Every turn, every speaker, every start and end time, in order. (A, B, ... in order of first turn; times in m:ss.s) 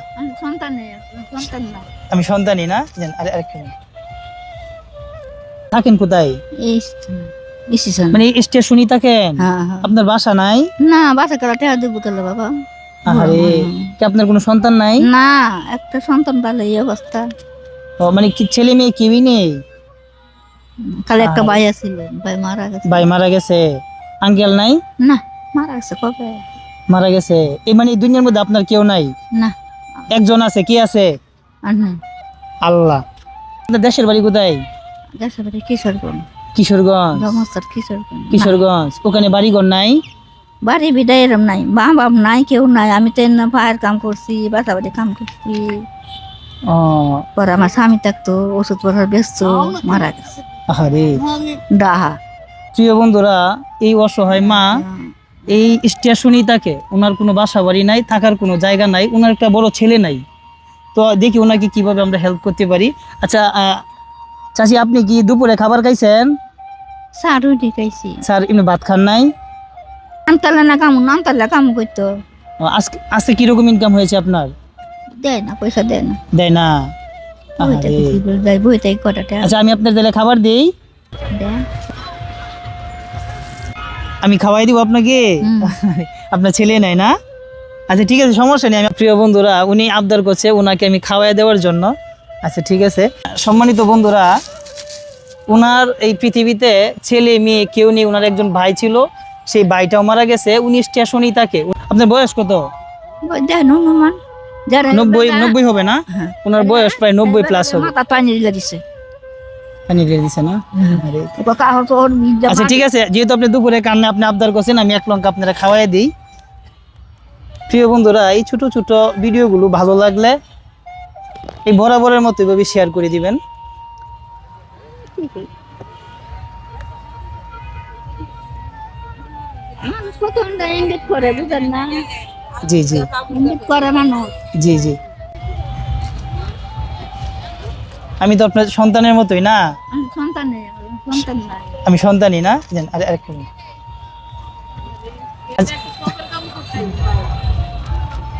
0:00.2-0:01.9 A
0:02.1-0:03.7 B
0:05.7-0:06.4 B
0:06.6-0:08.2 A
0:08.1-0:10.7 B
0:09.4-0:09.9 A
0:10.8-0:12.5 A
0:13.1-0:15.1 B
0:13.1-0:13.9 A
0:15.0-0:17.2 A
0:18.0-0:19.6 B
0:20.9-0:23.1 A
0:21.2-0:21.6 B
0:22.9-0:24.8 B
0:25.0-0:26.4 A
0:26.9-0:29.1 B
0:29.4-0:30.1 A
0:30.1-0:31.1 B
0:31.6-0:32.0 A
0:32.6-0:33.0 B
0:33.7-0:34.6 B
0:35.2-0:36.2 A
0:36.6-0:37.4 B
0:37.2-0:38.5 A
0:38.3-0:40.0 B
0:40.6-0:45.8 A
0:46.7-0:47.2 B
0:47.4-0:50.3 A
0:50.7-0:51.2 B
0:51.5-0:52.2 A
0:52.7-0:54.8 B
0:54.3-0:55.1 A
0:55.5-1:00.2 B
1:00.9-1:03.8 B
1:04.6-1:06.3 B
1:07.2-1:08.2 A
1:08.2-1:09.3 B
1:10.3-1:12.1 A
1:12.6-1:14.5 B
1:15.2-1:16.2 A
1:16.3-1:16.8 B
1:17.6-1:18.2 B
1:17.6-1:19.5 A
1:19.4-1:20.7 B
1:21.3-1:21.6 A
1:24.2-1:27.1 B
1:25.4-1:25.8 A
1:27.9-1:31.9 B
1:32.4-1:34.3 B
1:35.5-1:42.6 B
1:43.3-1:44.2 A
1:44.7-1:45.6 A
1:44.9-1:47.9 B
1:46.1-1:48.8 A
1:49.9-1:51.3 B
1:50.8-1:52.8 A
1:52.5-1:56.1 B
1:57.7-2:00.4 B
2:01.6-2:03.4 B
2:05.0-2:05.5 A
2:09.8-2:12.1 A
2:12.6-2:13.2 B
2:13.3-2:14.3 A
2:14.6-2:15.0 B
2:18.2-2:19.6 B
2:19.9-2:21.8 A
2:21.8-2:23.5 B
2:25.5-2:26.1 B